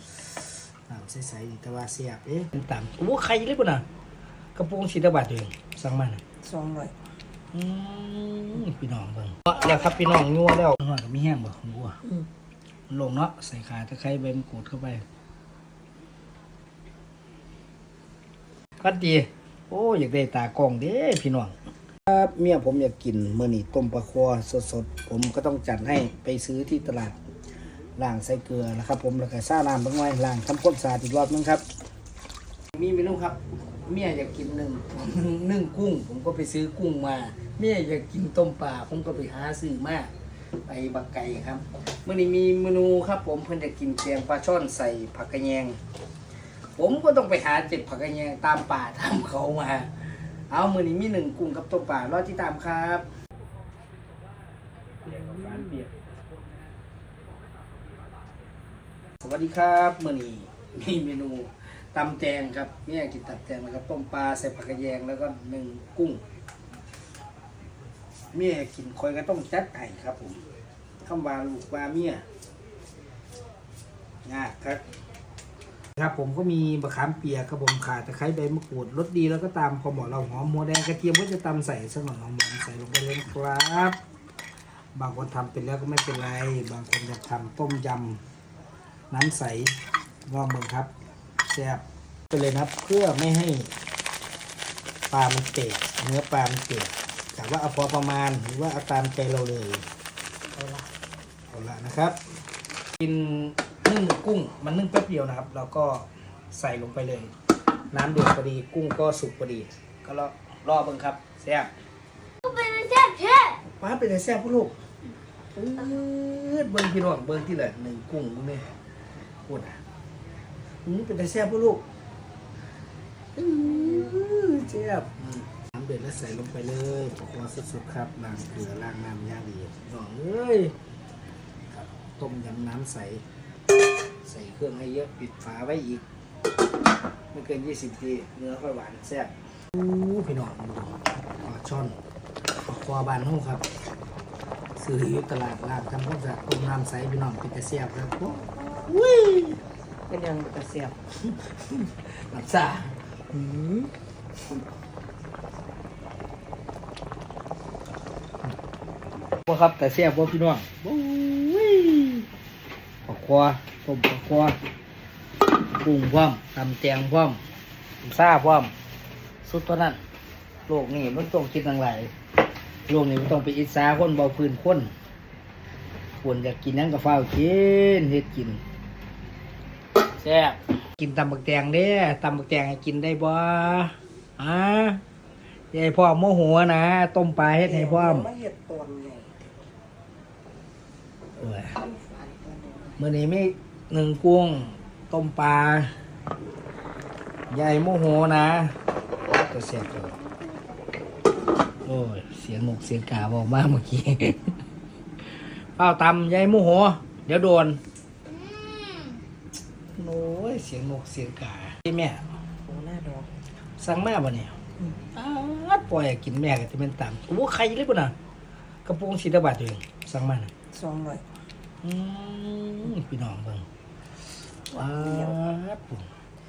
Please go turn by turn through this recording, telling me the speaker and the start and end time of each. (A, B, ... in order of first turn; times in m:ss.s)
0:00.9-0:03.8 A
0:04.6-0:06.2 A
0:06.4-0:06.9 B
0:07.5-0:12.0 A
0:12.9-0:15.0 A
0:18.8-0:21.5 A
0:22.1-0:27.2 A
0:28.0-0:31.6 A
0:32.7-0:40.1 A
0:40.6-0:45.8 A
0:46.8-0:49.9 A
0:50.5-0:53.0 A
0:55.0-0:55.9 A
0:59.2-1:06.2 A
1:08.3-1:10.4 A
1:11.0-1:12.2 A
1:14.2-1:14.8 A
1:16.0-1:24.0 A
1:25.0-1:28.2 A
1:29.1-1:29.8 A
1:30.3-1:30.9 A
1:31.5-1:33.7 A
1:35.1-1:39.8 A
1:40.6-1:40.8 A
1:41.5-1:42.2 A
1:43.0-1:47.3 A
1:47.9-1:51.7 A
1:52.4-1:53.6 C
1:53.6-1:54.7 A
1:55.6-1:58.7 A
1:59.5-1:59.8 A
2:00.8-2:01.8 A
2:03.4-2:10.8 A
2:11.7-2:13.2 A
2:14.2-2:16.0 A
2:17.3-2:22.0 A
2:22.7-2:23.6 A
2:24.8-2:29.6 A
2:30.1-2:31.0 B
2:31.2-2:33.0 A
2:33.3-2:33.9 B
2:39.4-2:42.3 A
2:43.0-2:44.6 A
2:45.8-2:47.4 A
2:48.0-2:48.7 A
2:49.4-2:50.0 A
2:50.7-2:52.1 A
2:52.9-2:54.9 A
2:56.2-2:58.6 A
3:00.2-3:05.0 A
3:05.7-3:08.3 A
3:07.6-3:09.6 B
3:11.4-3:11.8 A
3:11.8-3:13.0 B
3:13.0-3:15.9 A
3:17.5-3:18.8 A
3:19.3-3:20.2 A
3:21.8-3:24.6 A
3:25.8-3:27.8 A
3:28.4-3:29.2 C
3:30.0-3:32.2 A
3:32.7-3:33.3 B
3:33.8-3:34.6 A
3:35.1-3:38.1 A
3:38.8-3:40.5 A
3:40.7-3:41.2 B
3:41.8-3:43.6 A
3:44.7-3:46.1 A
3:44.7-3:45.4 B